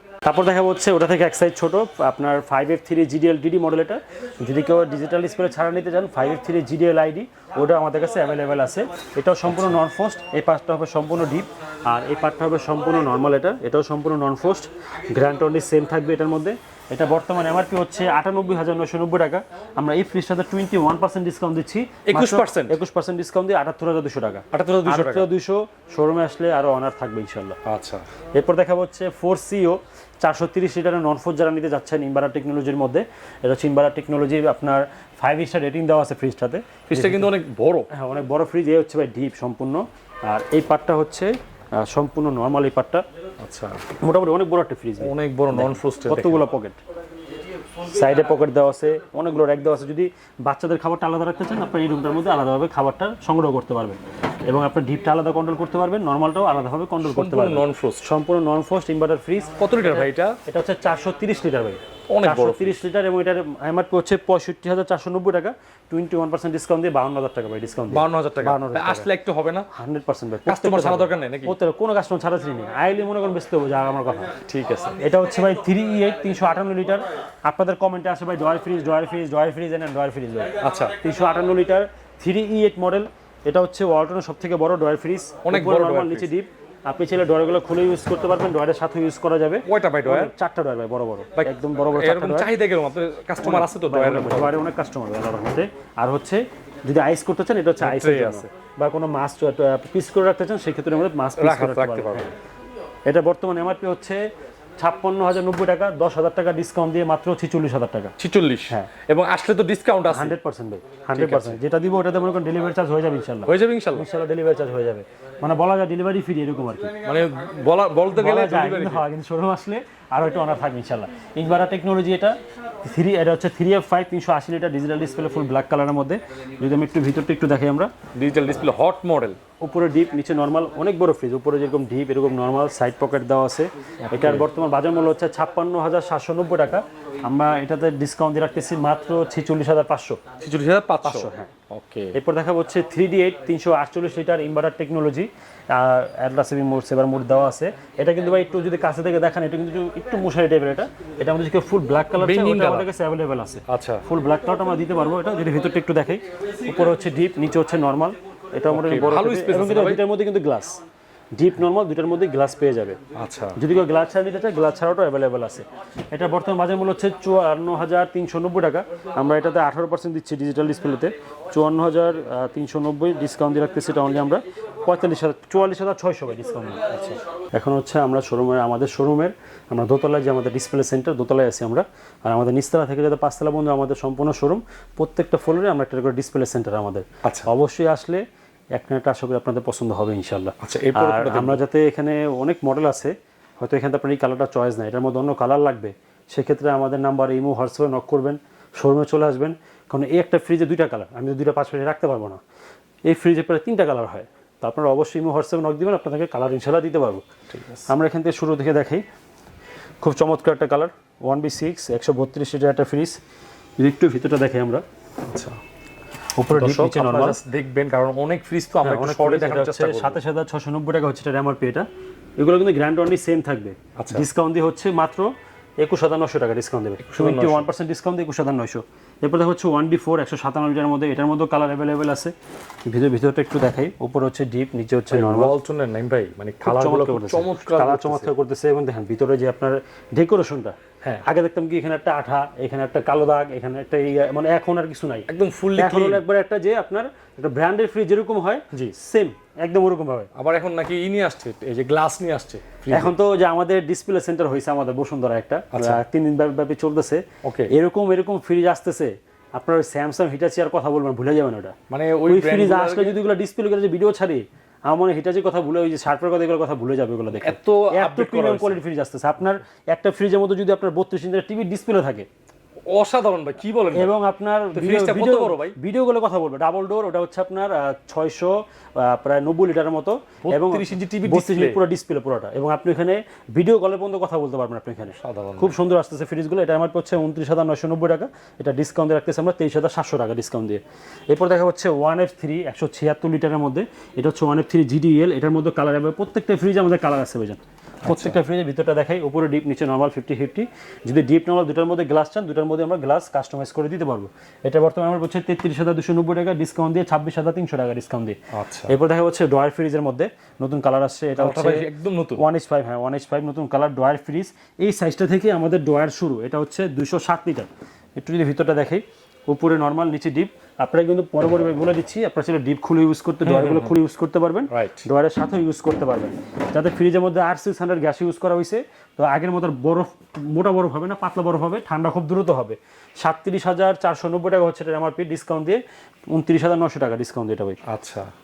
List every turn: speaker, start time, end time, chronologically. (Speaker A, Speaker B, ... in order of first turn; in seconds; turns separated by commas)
Speaker A: 0.2-27.6, Speaker B: 22.1-22.8, Speaker B: 24.5-25.3, Speaker B: 27.6-28.1, Speaker A: 28.3-37.3, Speaker B: 36.9-37.9, Speaker A: 37.9-43.0, Speaker B: 43.4-43.8, Speaker A: 44.0-46.8, Speaker B: 45.0-46.4, Speaker A: 47.8-59.9, Speaker B: 57.0-58.0, Speaker B: 59.5-60.4, Speaker A: 60.5-69.1, Speaker B: 62.1-62.8, Speaker B: 67.9-69.7, Speaker A: 69.7-74.4, Speaker B: 70.5-71.5, Speaker B: 74.5-75.0, Speaker A: 75.0-92.5, Speaker B: 80.6-81.0, Speaker B: 85.4-86.3, Speaker B: 89.7-90.3, Speaker B: 91.4-94.6, Speaker A: 93.4-102.3, Speaker B: 97.8-98.5, Speaker B: 101.4-102.3, Speaker A: 103.0-104.3, Speaker A: 104.8-108.1, Speaker B: 108.2-110.3, Speaker A: 110.1-117.0, Speaker B: 111.2-111.6, Speaker B: 113.4-114.1, Speaker B: 117.0-119.0, Speaker A: 118.1-127.9, Speaker B: 128.1-129.4, Speaker A: 129.6-140.2, Speaker B: 134.1-134.5, Speaker B: 140.4-142.2, Speaker A: 141.0-141.5, Speaker A: 142.1-160.8, Speaker B: 152.2-152.9, Speaker B: 153.7-154.0, Speaker B: 158.7-160.0, Speaker A: 161.3-163.0, Speaker B: 163.1-163.6, Speaker A: 163.6-188.2, Speaker A: 188.7-202.4, Speaker B: 190.6-191.6, Speaker A: 203.1-207.2, Speaker B: 207.5-207.9, Speaker A: 207.9-209.0, Speaker A: 210.0-213.2, Speaker A: 213.8-214.8, Speaker B: 215.2-215.6, Speaker A: 216.4-217.4, Speaker B: 216.5-220.2, Speaker A: 218.8-221.9, Speaker A: 222.4-232.3, Speaker B: 224.0-224.2, Speaker B: 227.0-227.7, Speaker A: 232.9-235.5, Speaker B: 235.1-238.3, Speaker A: 236.6-250.3, Speaker B: 245.3-246.2, Speaker B: 250.3-253.1, Speaker A: 252.9-261.7, Speaker B: 255.7-256.0, Speaker B: 257.4-257.7, Speaker B: 261.9-263.2, Speaker A: 262.3-272.3, Speaker B: 267.3-268.8, Speaker B: 272.9-274.1, Speaker A: 273.9-337.8, Speaker B: 274.7-275.8, Speaker B: 280.4-281.8, Speaker B: 285.2-285.8, Speaker B: 298.0-298.4, Speaker B: 308.5-308.9, Speaker B: 311.4-312.4, Speaker B: 323.4-323.9, Speaker B: 324.7-325.1, Speaker B: 337.9-338.3